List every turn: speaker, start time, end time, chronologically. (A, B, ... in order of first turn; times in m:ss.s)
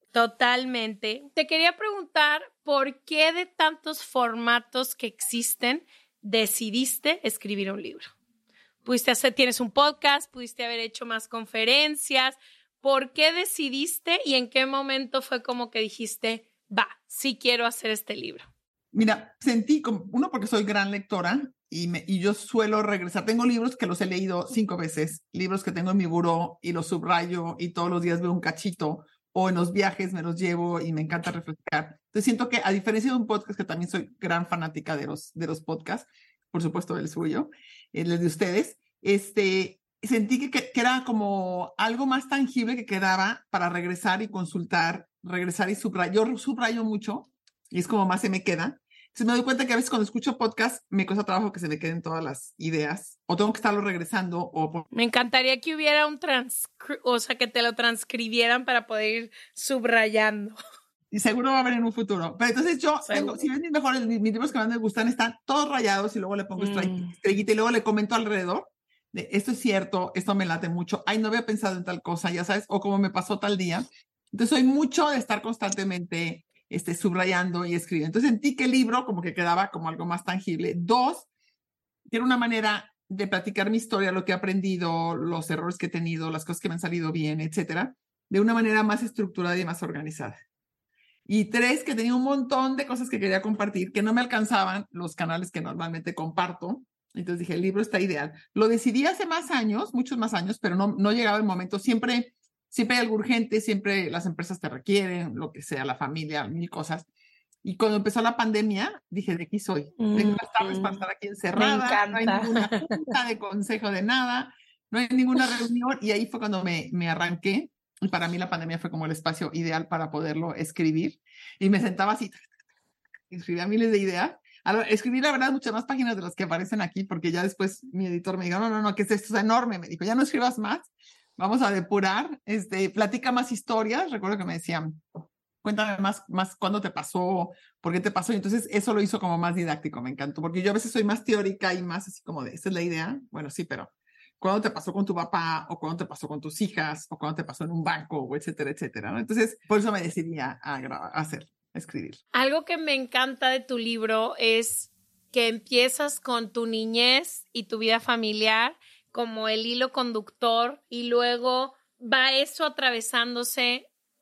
0:00.1-0:08.1 A
0:08.8-0:18.4 A
0:18.9-0:54.9 B
0:54.9-1:00.6 A
1:01.1-1:21.3 B
1:03.0-1:03.4 A
1:06.6-1:07.1 A
1:22.1-1:30.4 B
1:31.2-1:47.1 B
1:47.6-2:02.4 B
1:50.0-1:51.0 A
1:51.6-1:52.6 A
2:03.3-2:15.0 B
2:15.6-2:32.2 B
2:32.3-2:43.9 A